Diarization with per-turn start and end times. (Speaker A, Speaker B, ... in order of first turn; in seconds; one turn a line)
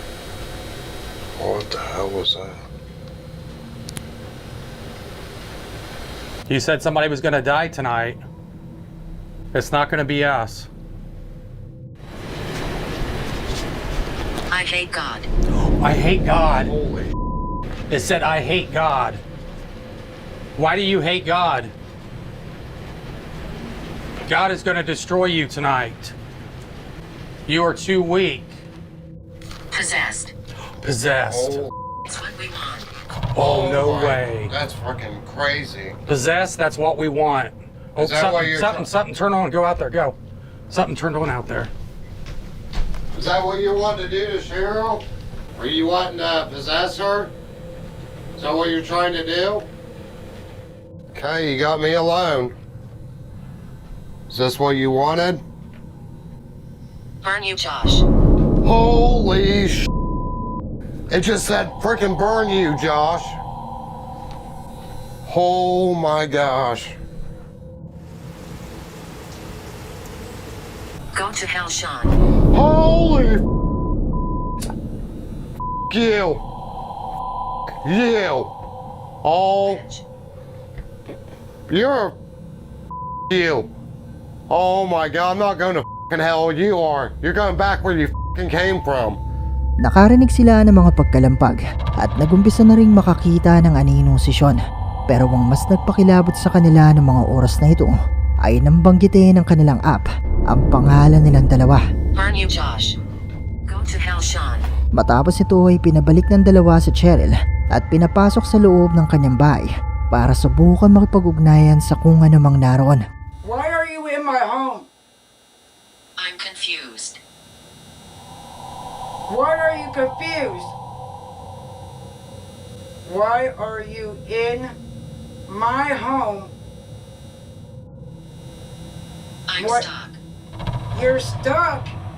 Speaker A: 1.4-2.6
Speaker B: 6.5-8.2
Speaker B: 9.5-10.7
Speaker C: 14.5-15.3
Speaker B: 15.8-16.7
Speaker A: 16.5-17.1
Speaker B: 17.9-19.2
Speaker B: 20.6-21.7
Speaker B: 24.3-26.1
Speaker B: 27.5-28.5
Speaker C: 29.8-30.3
Speaker B: 30.8-31.7
Speaker A: 31.3-31.7
Speaker C: 32.1-32.9
Speaker B: 33.3-34.5
Speaker A: 33.4-36.0
Speaker B: 36.1-40.2
Speaker A: 38.0-38.9
Speaker B: 40.7-41.7
Speaker A: 43.1-45.0
Speaker A: 45.5-47.3
Speaker A: 48.4-49.7
Speaker A: 51.1-52.5
Speaker A: 54.3-55.4
Speaker C: 57.2-58.0
Speaker A: 58.6-59.9
Speaker A: 61.1-63.4
Speaker A: 65.2-66.9
Speaker C: 71.1-72.1
Speaker A: 72.5-73.4
Speaker A: 75.9-76.4
Speaker A: 77.8-78.5
Speaker A: 79.2-79.8
Speaker C: 79.7-80.0
Speaker A: 81.7-82.2
Speaker A: 83.3-83.7
Speaker A: 84.5-89.2
Speaker D: 89.8-97.9
Speaker D: 98.4-101.8
Speaker C: 102.3-102.9
Speaker C: 103.9-104.6
Speaker D: 105.0-113.0
Speaker E: 113.4-114.9
Speaker C: 116.3-117.2
Speaker E: 119.3-120.7
Speaker E: 123.0-124.7
Speaker E: 125.5-126.5
Speaker E: 129.5-129.8
Speaker C: 129.6-130.2
Speaker E: 130.9-131.9